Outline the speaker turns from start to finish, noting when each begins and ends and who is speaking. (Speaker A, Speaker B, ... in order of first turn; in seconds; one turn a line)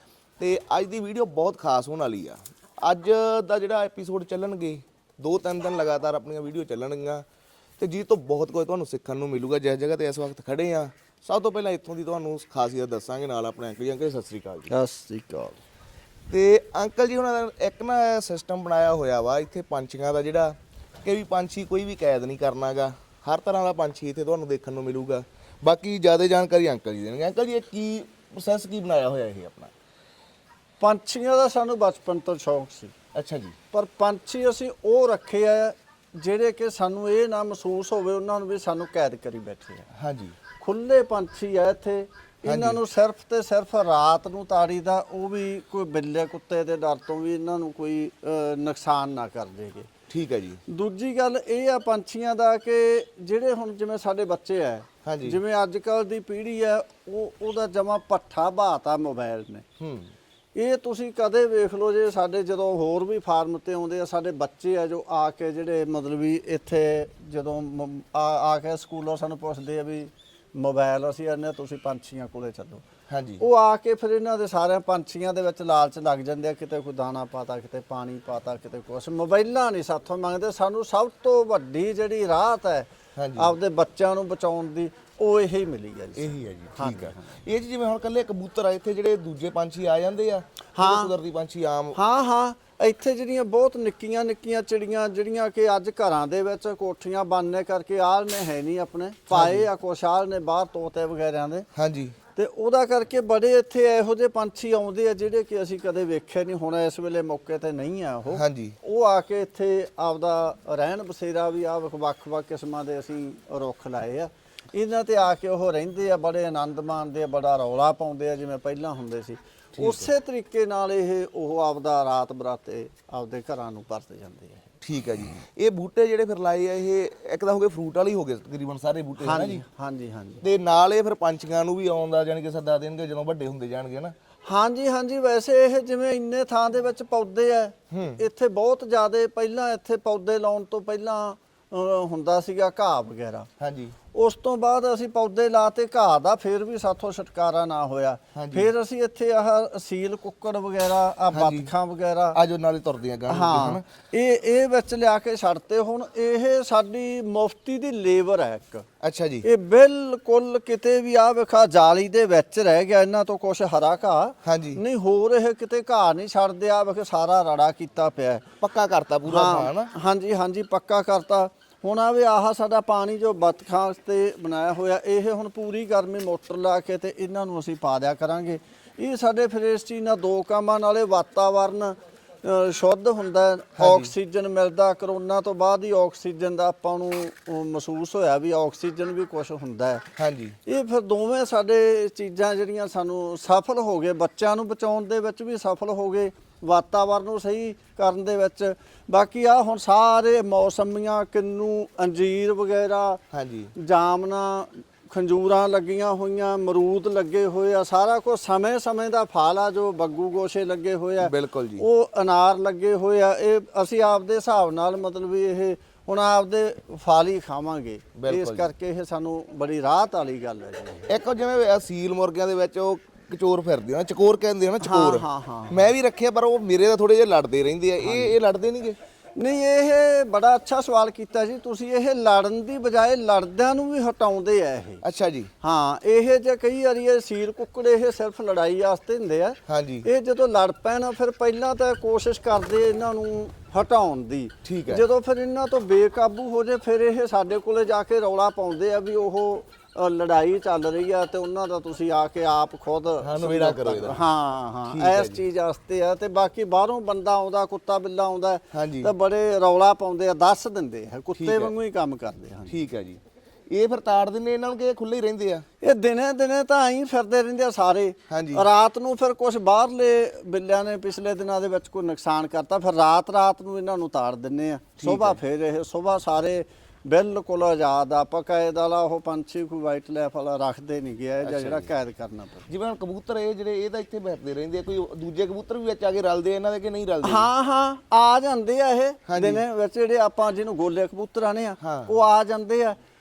Speaker A: 0.4-7.2
Speaker A: 7.8-14.7
Speaker B: 14.7-15.6
Speaker A: 16.3-29.7
Speaker B: 30.8-32.9
Speaker A: 33.1-33.5
Speaker B: 33.7-39.9
Speaker A: 39.9-40.4
Speaker B: 40.6-49.9
Speaker A: 42.5-42.8
Speaker A: 50.1-50.6
Speaker B: 50.7-59.6
Speaker A: 55.0-55.4
Speaker A: 59.8-60.1
Speaker B: 60.5-72.8
Speaker A: 73.1-73.4
Speaker B: 73.4-87.3
Speaker A: 83.2-83.5
Speaker A: 86.2-92.0
Speaker B: 90.8-91.1
Speaker B: 91.9-101.7
Speaker A: 99.3-99.7
Speaker A: 101.8-102.2
Speaker B: 102.3-124.7
Speaker A: 108.3-108.8
Speaker A: 119.8-120.1
Speaker A: 124.8-129.6
Speaker B: 129.2-130.4
Speaker A: 130.4-134.2
Speaker B: 134.4-143.5
Speaker A: 137.9-138.2
Speaker A: 143.6-144.0
Speaker B: 144.1-152.4
Speaker A: 148.3-148.7
Speaker A: 151.3-151.7
Speaker A: 152.3-153.8
Speaker B: 153.3-158.9
Speaker A: 159.0-159.5
Speaker B: 159.4-168.5
Speaker A: 164.4-164.8
Speaker A: 168.6-169.9
Speaker B: 169.3-190.1
Speaker A: 183.8-184.1
Speaker A: 190.2-190.6
Speaker B: 190.7-203.2
Speaker A: 203.3-203.7
Speaker B: 203.8-221.1
Speaker A: 211.2-211.9
Speaker A: 218.2-218.7
Speaker A: 221.1-229.0
Speaker B: 224.8-225.9
Speaker B: 228.0-228.3
Speaker B: 229.4-235.0
Speaker A: 235.0-235.5
Speaker B: 235.6-262.8
Speaker A: 239.7-240.1
Speaker A: 244.6-245.1
Speaker A: 253.2-254.2
Speaker A: 254.9-255.4
Speaker A: 258.7-259.1
Speaker A: 261.4-261.7
Speaker A: 262.7-265.6
Speaker B: 265.8-282.7
Speaker A: 268.3-268.7
Speaker A: 275.0-275.4
Speaker A: 281.4-281.9
Speaker A: 282.7-287.5
Speaker B: 287.2-293.0
Speaker A: 289.3-289.6
Speaker A: 291.8-292.1